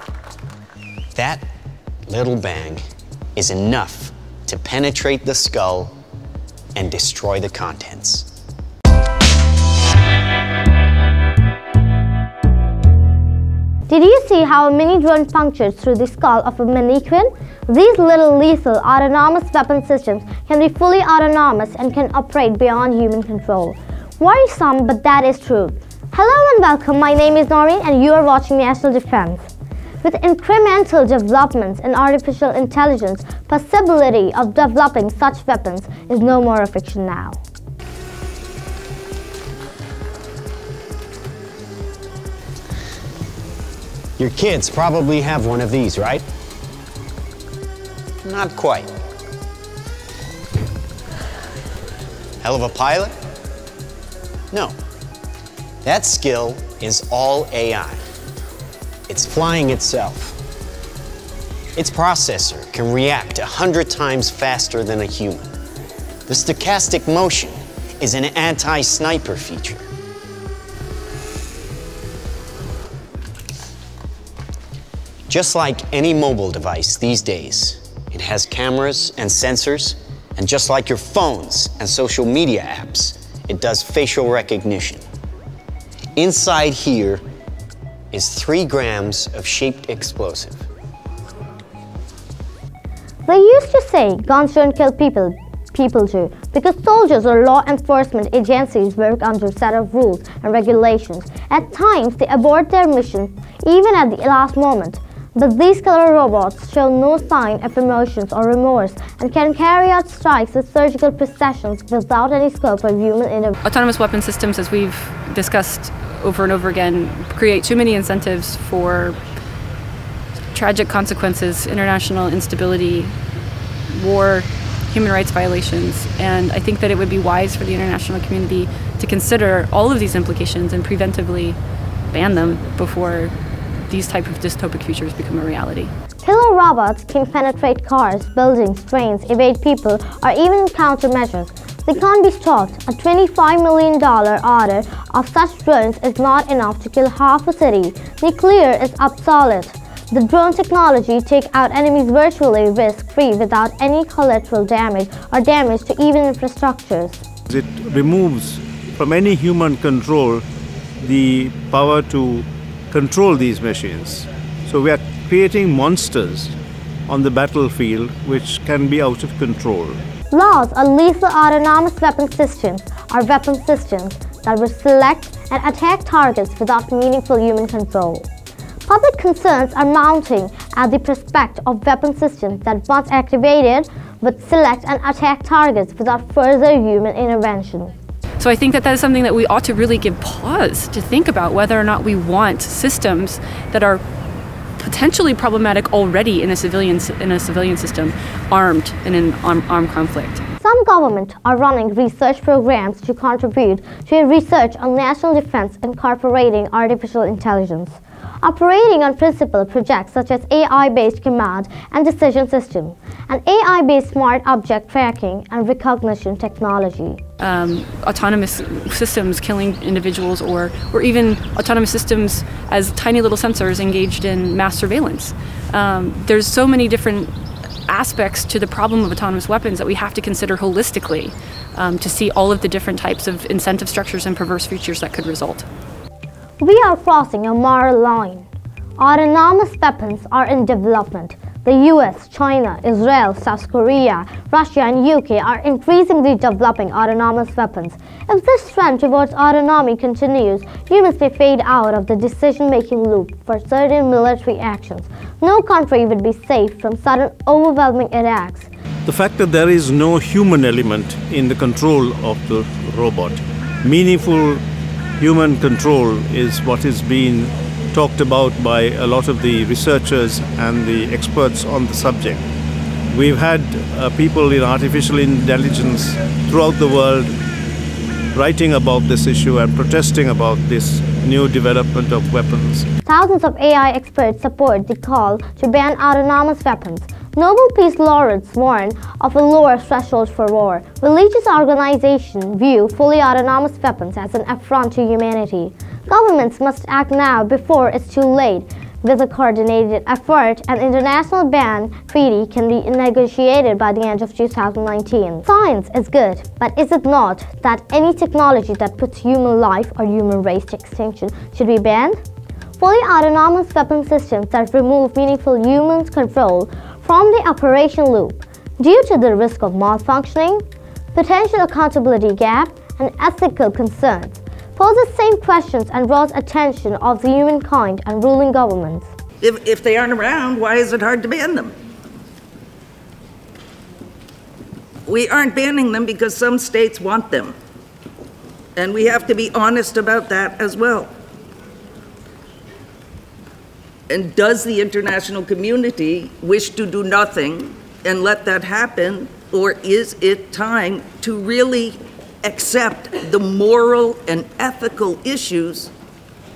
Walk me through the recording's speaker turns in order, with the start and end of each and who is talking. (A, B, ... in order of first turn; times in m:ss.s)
0:01.1-0:01.4 A
0:02.1-0:02.8 A
0:03.4-0:05.9 A
0:06.7-0:08.3 A
0:13.9-0:29.5 B
0:30.0-0:37.4 B
0:44.2-0:46.2 A
0:48.2-0:48.9 A
0:52.4-0:53.1 A
0:55.8-0:58.0 A
0:59.1-1:00.4 A
1:01.8-1:05.5 A
1:06.3-1:09.8 A
1:15.3-1:25.0 A
1:26.2-1:27.2 A
1:28.1-1:30.6 A
1:33.2-1:53.5 B
1:53.6-1:59.2 C
2:00.5-2:03.1 C
2:03.9-2:11.6 C
2:12.1-2:13.3 C
2:13.9-2:15.9 C
2:16.2-2:37.2 B
2:37.5-2:40.4 D
2:41.0-2:46.6 D
2:47.1-2:50.0 D
2:50.3-2:58.3 B
2:58.8-3:07.9 B
3:08.4-3:14.0 C
3:14.8-3:20.4 C
3:20.6-3:37.2 B
3:37.4-3:47.3 C
3:47.9-3:55.6 C
3:56.6-3:58.4 B
3:59.0-4:18.7 B
4:19.0-4:24.6 D
4:25.2-4:32.4 D
4:33.1-4:37.4 D
4:38.3-4:42.9 D
4:43.0-5:12.2 B
5:12.8-5:20.6 B
5:21.1-5:29.1 B
5:29.4-5:31.7 E
5:35.1-5:37.5 E
5:38.8-5:41.1 E
5:44.1-5:55.9 E